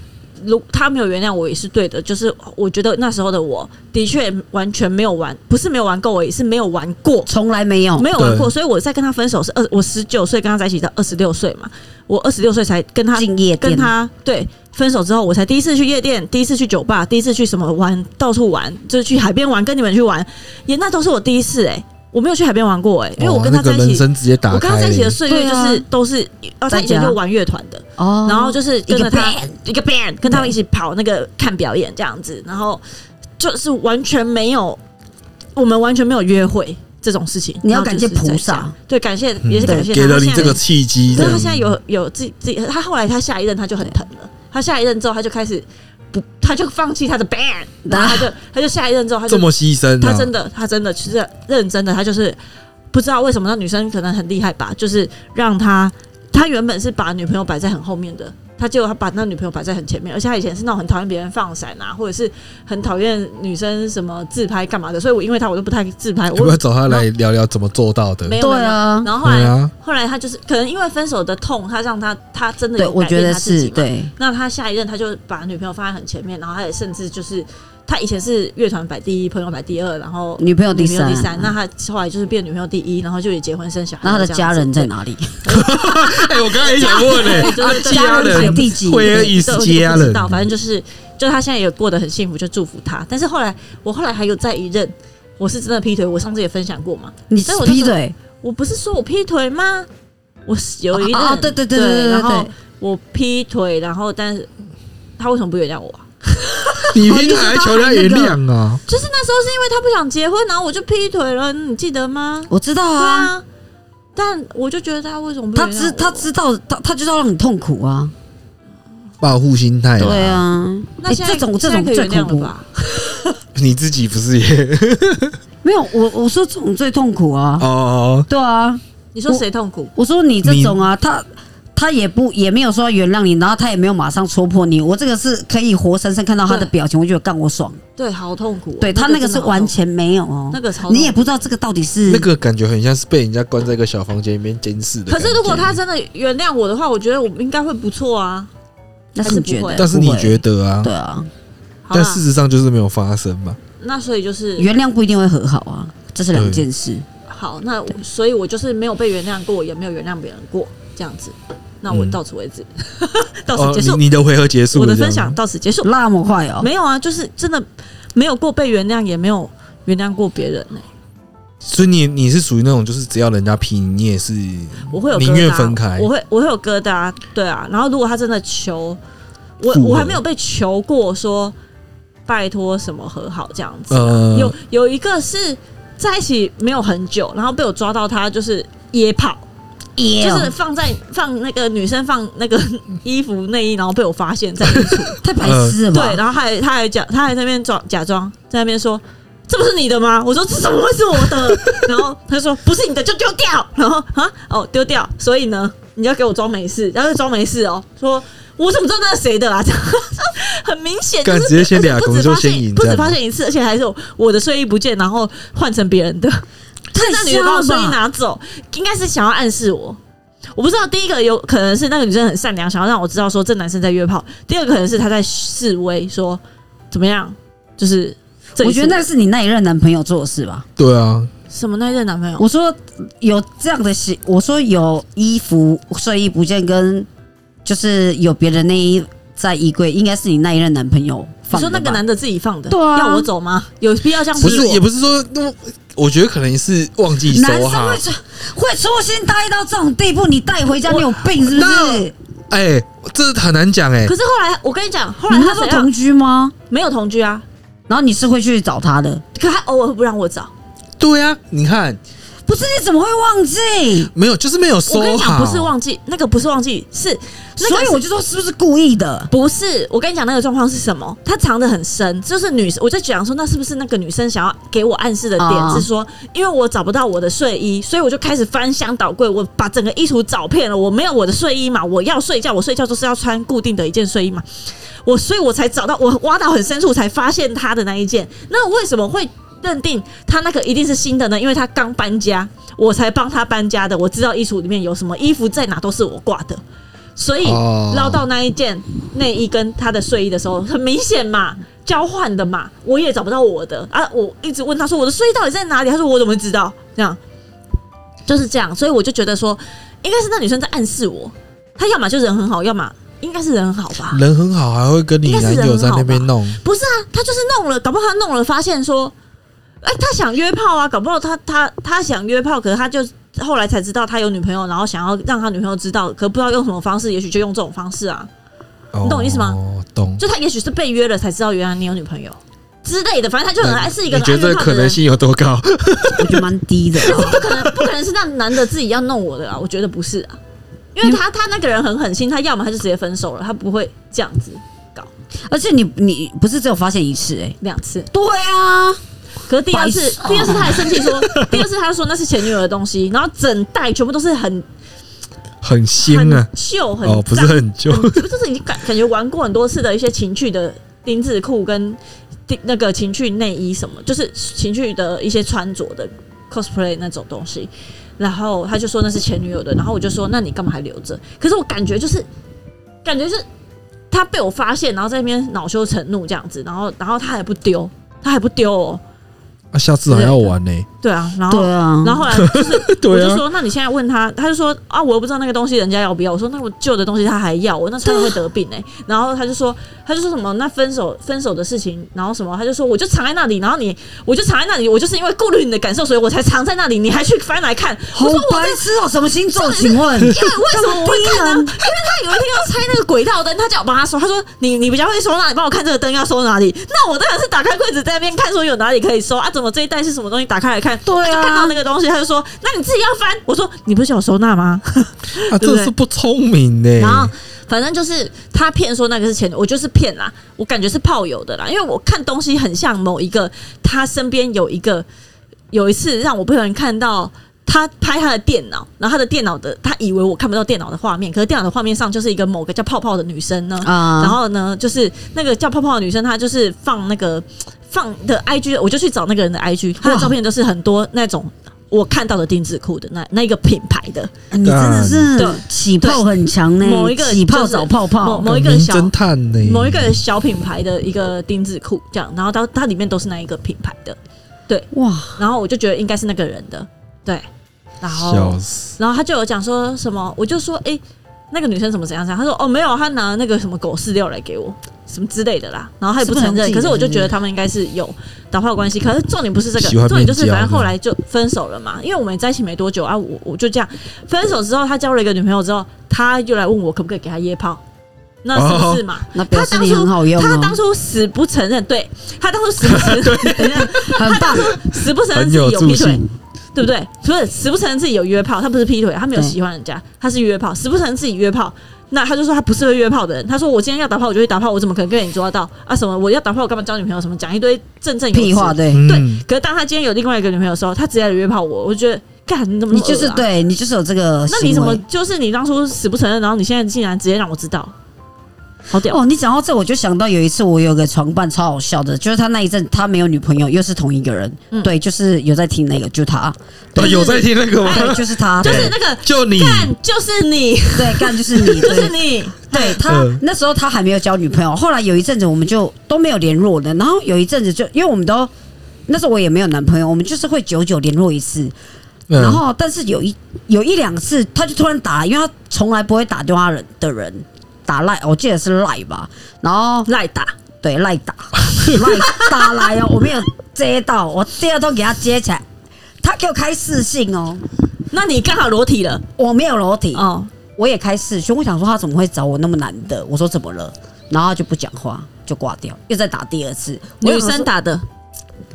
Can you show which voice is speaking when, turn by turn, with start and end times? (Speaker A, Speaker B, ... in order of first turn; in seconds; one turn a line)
Speaker A: 0.4-7.3
Speaker B: 7.3-8.1
Speaker A: 8.0-32.8
Speaker C: 8.2-8.5
Speaker B: 13.1-13.9
Speaker C: 23.2-25.2
Speaker B: 25.3-25.9
Speaker B: 26.7-27.2
Speaker B: 28.0-29.6
Speaker B: 30.2-30.5
Speaker A: 33.4-34.8
Speaker A: 35.5-49.5
Speaker B: 37.6-38.7
Speaker C: 39.4-41.7
Speaker B: 39.6-40.6
Speaker B: 41.1-41.4
Speaker B: 47.9-48.3
Speaker C: 49.3-50.3
Speaker A: 50.0-52.4
Speaker A: 52.9-67.0
Speaker C: 66.3-68.4
Speaker A: 68.2-84.9
Speaker B: 68.4-69.1
Speaker C: 69.2-69.7
Speaker B: 72.8-74.1
Speaker B: 80.4-81.5
Speaker B: 84.0-85.4
Speaker A: 85.4-99.9
Speaker C: 85.5-90.4
Speaker B: 87.1-89.3
Speaker B: 97.3-98.1
Speaker A: 100.5-104.5
Speaker B: 100.9-102.5
Speaker A: 105.2-106.9
Speaker C: 106.9-108.8
Speaker B: 107.0-108.4
Speaker A: 108.9-113.4
Speaker B: 112.5-113.3
Speaker A: 114.1-116.3
Speaker B: 115.5-118.1
Speaker C: 119.2-120.4
Speaker B: 120.0-122.5
Speaker A: 121.0-122.7
Speaker C: 123.5-125.3
Speaker B: 125.6-127.7
Speaker C: 127.6-128.3
Speaker B: 128.3-129.4
Speaker A: 129.1-129.9
Speaker B: 129.9-137.8
Speaker C: 130.4-130.8
Speaker A: 136.4-136.7
Speaker A: 138.0-139.7
Speaker B: 138.8-142.3
Speaker A: 140.5-141.3
Speaker C: 142.1-145.8
Speaker A: 145.1-148.5
Speaker B: 149.1-151.3
Speaker A: 149.2-149.8
Speaker C: 149.8-150.9
Speaker A: 151.8-152.2
Speaker C: 151.9-153.6
Speaker A: 153.8-154.7
Speaker B: 154.6-157.0
Speaker C: 156.3-156.7
Speaker A: 157.3-164.0
Speaker C: 161.9-162.2
Speaker C: 163.5-165.4
Speaker A: 164.7-165.9
Speaker B: 165.8-166.7
Speaker A: 166.6-170.8
Speaker C: 171.6-176.1
Speaker A: 174.9-179.0
Speaker A: 179.6-181.5
Speaker C: 179.7-180.2
Speaker A: 182.2-189.4
Speaker C: 183.9-184.5
Speaker B: 189.9-190.5
Speaker A: 190.2-195.2
Speaker C: 194.9-195.8
Speaker B: 195.2-196.2
Speaker A: 195.9-216.4
Speaker C: 211.2-213.2
Speaker B: 216.9-218.0
Speaker A: 216.9-220.0
Speaker A: 220.5-229.1
Speaker B: 228.6-230.6
Speaker C: 230.8-231.3
Speaker A: 231.5-232.4
Speaker B: 232.4-237.1
Speaker B: 237.6-242.0
Speaker A: 241.5-244.8
Speaker B: 242.7-243.3
Speaker B: 244.4-244.8
Speaker C: 244.4-248.0
Speaker B: 247.3-252.1
Speaker A: 250.8-251.2
Speaker C: 251.4-254.1
Speaker A: 254.0-255.9
Speaker B: 255.3-256.5
Speaker A: 256.7-257.4
Speaker B: 257.9-259.2
Speaker A: 259.3-260.5
Speaker C: 261.0-262.0
Speaker B: 262.4-264.1
Speaker C: 264.1-265.7
Speaker A: 264.9-268.0
Speaker B: 267.6-269.3
Speaker A: 269.3-284.4
Speaker B: 275.4-275.9
Speaker A: 285.0-296.6
Speaker A: 297.1-307.2
Speaker C: 297.4-298.2
Speaker A: 308.3-314.2
Speaker C: 314.1-316.6
Speaker A: 315.2-319.1
Speaker A: 319.8-328.3
Speaker C: 328.9-330.2
Speaker A: 329.0-329.6
Speaker A: 330.2-335.0
Speaker C: 333.6-336.5
Speaker B: 336.2-337.5
Speaker C: 337.0-337.9
Speaker A: 337.0-340.4
Speaker A: 340.9-345.1
Speaker B: 345.5-347.6
Speaker A: 347.6-348.1
Speaker B: 348.1-349.0
Speaker A: 349.4-354.6
Speaker B: 349.7-351.0
Speaker C: 351.2-351.6
Speaker C: 355.6-356.5
Speaker A: 356.0-372.3
Speaker C: 357.0-358.2
Speaker A: 373.0-373.4
Speaker A: 374.1-379.0
Speaker C: 379.7-380.9
Speaker A: 380.1-398.8
Speaker B: 381.5-382.3
Speaker C: 382.3-383.4
Speaker B: 388.0-388.4
Speaker B: 398.1-401.8
Speaker A: 399.5-415.9
Speaker B: 411.0-411.8
Speaker C: 415.5-417.3
Speaker A: 417.0-425.1
Speaker A: 425.7-444.3
Speaker B: 433.8-434.4
Speaker B: 440.0-440.3
Speaker B: 444.5-448.5
Speaker C: 444.6-445.3
Speaker A: 445.4-446.2
Speaker A: 446.8-457.4
Speaker C: 448.4-450.2
Speaker B: 454.9-455.4
Speaker A: 458.0-461.0
Speaker C: 458.1-458.9
Speaker A: 461.5-477.8
Speaker B: 466.2-467.3
Speaker C: 469.8-470.9
Speaker A: 478.4-503.4
Speaker C: 478.5-479.0
Speaker B: 479.3-480.8
Speaker C: 482.9-484.1
Speaker B: 483.6-484.8
Speaker C: 485.3-486.2
Speaker B: 498.3-499.0
Speaker C: 498.9-499.4
Speaker B: 502.9-505.0
Speaker A: 504.5-507.9
Speaker A: 508.9-509.2
Speaker B: 509.0-518.9
Speaker C: 516.9-519.9
Speaker A: 517.0-523.0
Speaker B: 520.9-528.5
Speaker C: 523.0-523.4
Speaker B: 529.1-531.7
Speaker C: 532.3-532.6
Speaker B: 532.4-540.1
Speaker A: 540.0-540.5
Speaker B: 540.8-545.6
Speaker A: 542.2-542.6
Speaker B: 546.2-547.6
Speaker A: 548.1-549.2
Speaker B: 549.4-557.7
Speaker A: 550.1-550.5
Speaker A: 557.2-558.0